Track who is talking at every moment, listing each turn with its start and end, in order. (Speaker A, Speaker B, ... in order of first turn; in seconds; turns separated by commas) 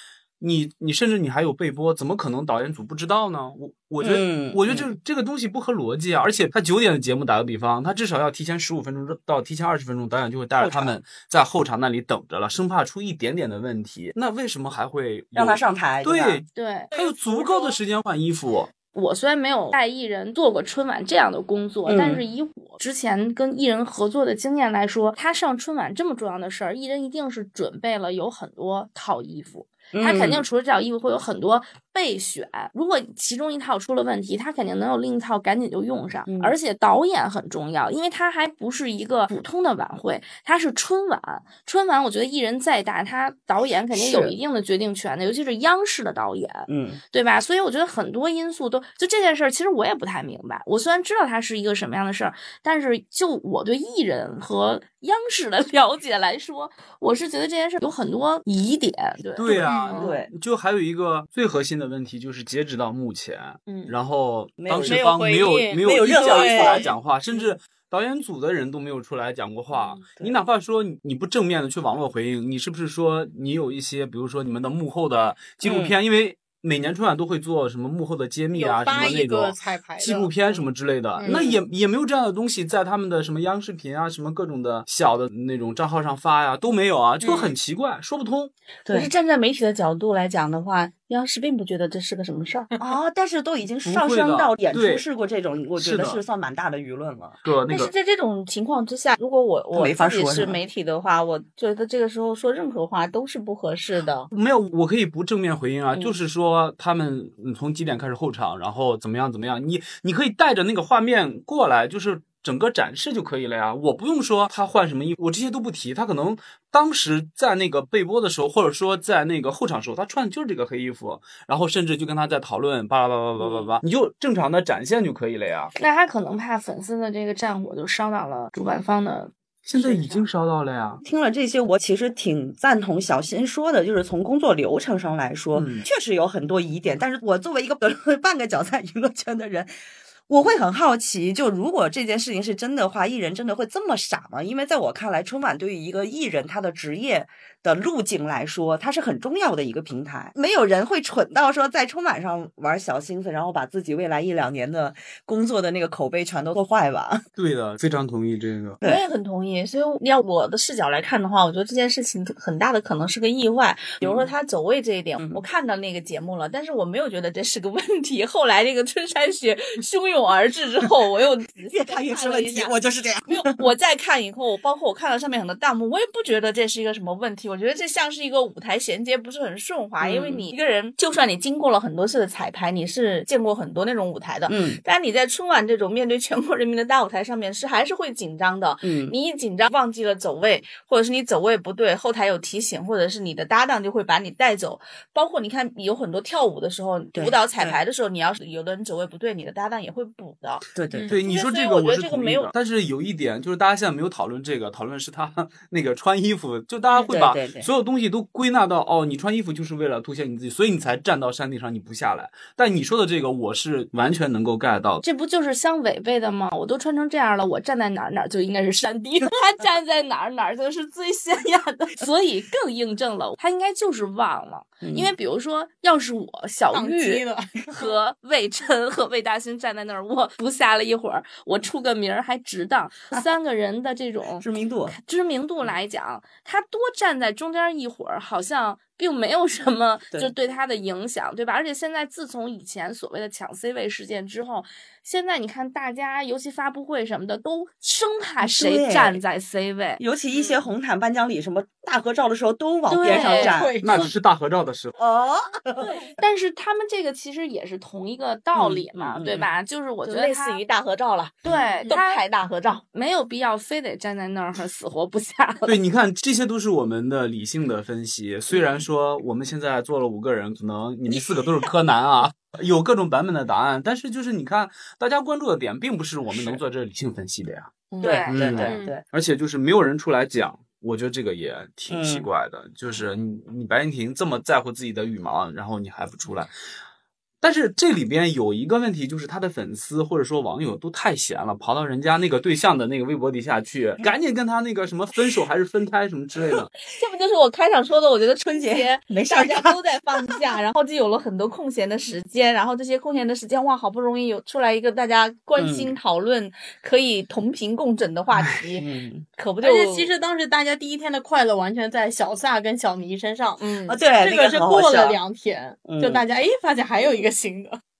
Speaker A: 0.4-18.7, Speaker B: 4.0-4.9, Speaker B: 10.6-10.9, Speaker B: 15.3-16.4, Speaker C: 16.5-17.6, Speaker C: 18.9-60.1, Speaker B: 21.9-22.2, Speaker B: 29.9-30.5, Speaker B: 36.3-36.6, Speaker B: 43.9-44.4, Speaker B: 46.7-47.0, Speaker A: 59.4-88.5, Speaker D: 59.6-60.0, Speaker B: 60.0-60.3, Speaker B: 64.6-65.1, Speaker E: 64.8-66.9, Speaker B: 66.0-67.4, Speaker D: 66.3-66.7, Speaker B: 75.6-75.9, Speaker D: 78.5-80.7, Speaker D: 81.2-81.4, Speaker B: 81.2-81.6, Speaker D: 87.2-87.5, Speaker B: 88.8-89.1, Speaker E: 88.9-92.7, Speaker B: 92.8-97.4, Speaker A: 93.8-95.0, Speaker A: 95.8-96.2, Speaker A: 97.4-97.9, Speaker E: 97.7-104.3, Speaker B: 99.7-100.6, Speaker A: 104.3-125.7, Speaker B: 123.4-123.7, Speaker C: 125.8-129.3, Speaker A: 129.6-131.0, Speaker B: 129.8-130.2, Speaker B: 131.0-139.7, Speaker A: 135.5-135.8, Speaker B: 140.3-157.2, Speaker A: 157.3-158.8, Speaker E: 158.8-172.7, Speaker B: 164.0-164.3, Speaker B: 171.7-173.6, Speaker E: 173.3-200.7, Speaker B: 180.0-180.4, Speaker B: 184.5-184.8, Speaker B: 188.8-189.1, Speaker B: 197.1-197.8, Speaker B: 200.7-201.2, Speaker D: 200.9-201.2, Speaker A: 201.1-215.0, Speaker E: 201.2-202.5, Speaker B: 207.1-207.7, Speaker C: 215.0-250.0, Speaker B: 224.8-225.2, Speaker D: 226.7-228.0, Speaker B: 234.4-235.0, Speaker B: 248.4-249.2, Speaker B: 250.0-253.8, Speaker C: 252.9-253.6, Speaker D: 253.1-254.1, Speaker A: 253.8-254.9, Speaker B: 255.0-256.0, Speaker C: 255.8-260.6, Speaker B: 258.5-259.5, Speaker E: 260.0-262.8, Speaker C: 261.4-262.2, Speaker C: 262.9-265.8, Speaker A: 265.6-277.7, Speaker B: 276.3-276.6, Speaker D: 277.9-278.9, Speaker C: 278.0-278.7, Speaker B: 278.0-279.0, Speaker A: 278.3-286.5, Speaker B: 281.9-282.3, Speaker A: 287.4-296.7, Speaker B: 296.4-296.6, Speaker E: 296.9-310.1, Speaker B: 298.5-300.4, Speaker B: 305.6-305.9, Speaker B: 308.6-309.2, Speaker D: 309.6-317.8, Speaker B: 313.9-315.2, Speaker B: 315.9-316.2